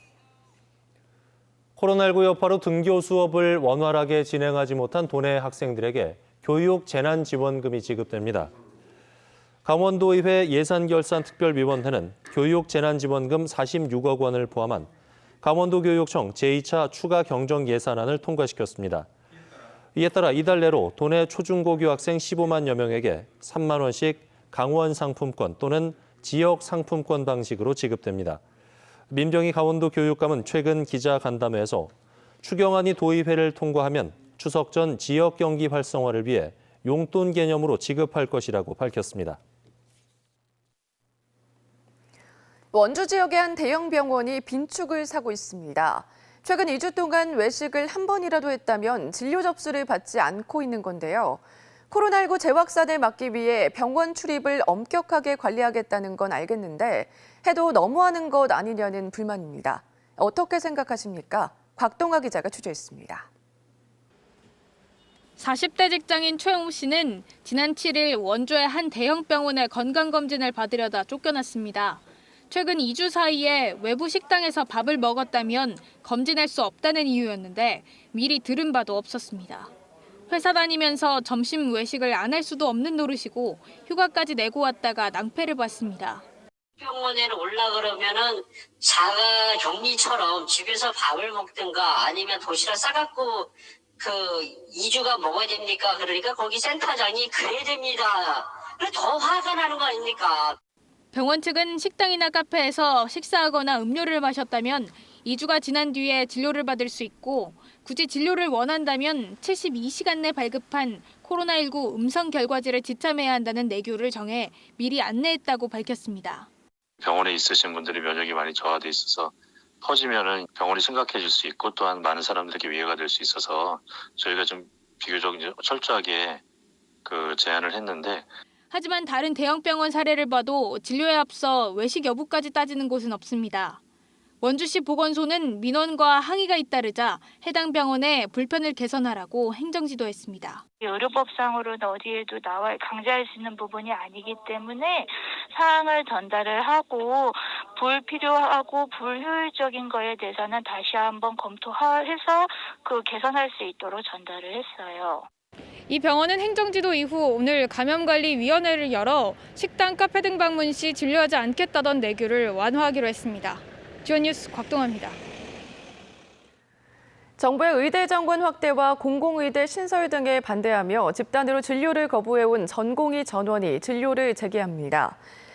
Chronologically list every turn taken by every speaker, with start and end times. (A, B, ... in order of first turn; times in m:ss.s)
0:01.8-0:08.5 A
0:09.6-0:14.9 A
0:15.4-0:19.1 A
0:20.0-0:28.4 A
0:29.1-0:39.4 A
0:42.7-1:03.3 B
1:05.4-1:19.7 C
1:20.3-1:26.2 C
1:26.8-1:40.6 D
1:41.1-1:56.5 C
1:57.0-2:06.4 E
2:07.0-2:08.3 E
2:08.7-2:13.8 C
2:14.4-2:20.6 C
2:20.8-2:35.3 F
2:35.9-2:45.2 C
2:47.4-2:55.2 B